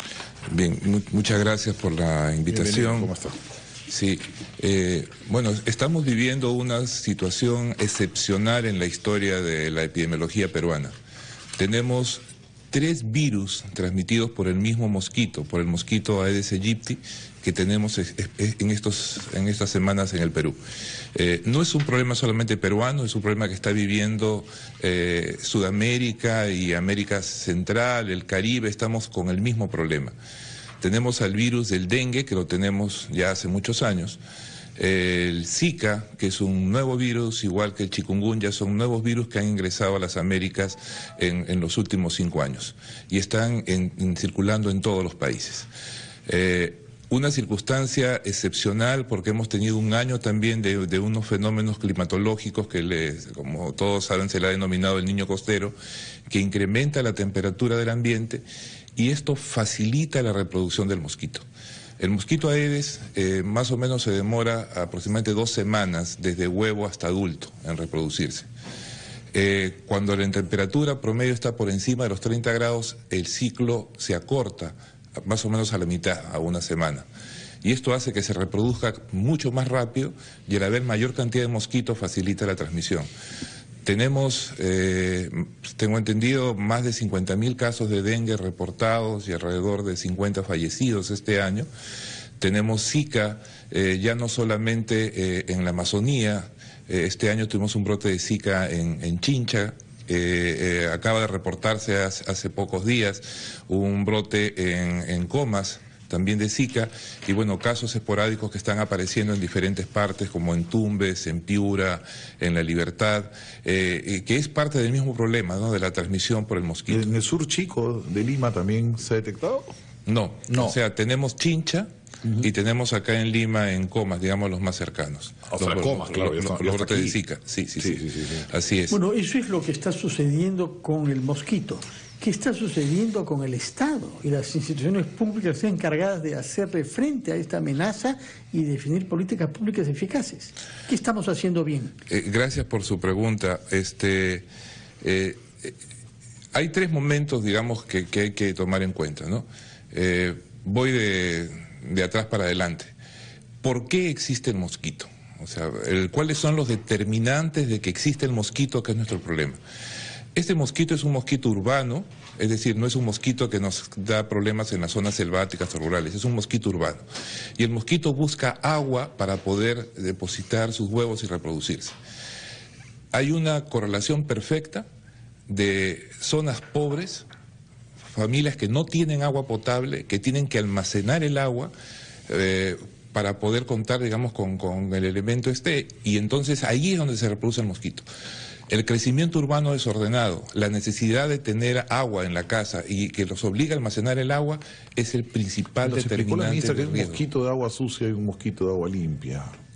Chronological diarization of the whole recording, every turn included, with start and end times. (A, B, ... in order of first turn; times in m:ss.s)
0:00.5-0:03.1 A
0:02.5-0:03.4 B
0:03.9-0:11.0 A
0:11.6-0:20.6 A
0:21.2-0:30.2 A
0:30.8-0:34.2 A
0:34.8-0:45.7 A
0:46.3-0:55.8 A
0:56.3-0:58.4 A
0:59.0-1:01.4 A
1:02.0-1:08.5 A
1:09.3-1:17.0 A
1:17.6-1:23.1 A
1:23.8-1:31.7 A
1:32.4-1:57.1 A
1:56.9-1:59.7 B
2:00.1-2:01.9 A
2:00.5-2:00.8 B
2:02.2-2:02.5 B
2:02.4-2:09.0 A
2:05.5-2:07.2 B
2:07.8-2:08.5 B
2:08.9-2:21.9 C
2:22.1-2:24.5 A
2:25.0-2:25.7 A
2:26.5-2:32.9 A
2:33.6-2:39.6 A
2:40.4-2:47.0 A
2:47.6-2:52.0 A
2:53.1-2:54.8 A
2:55.5-2:57.3 A
2:58.1-3:01.7 A
3:02.3-3:08.0 A
3:08.7-3:17.2 A
3:15.8-3:19.5 B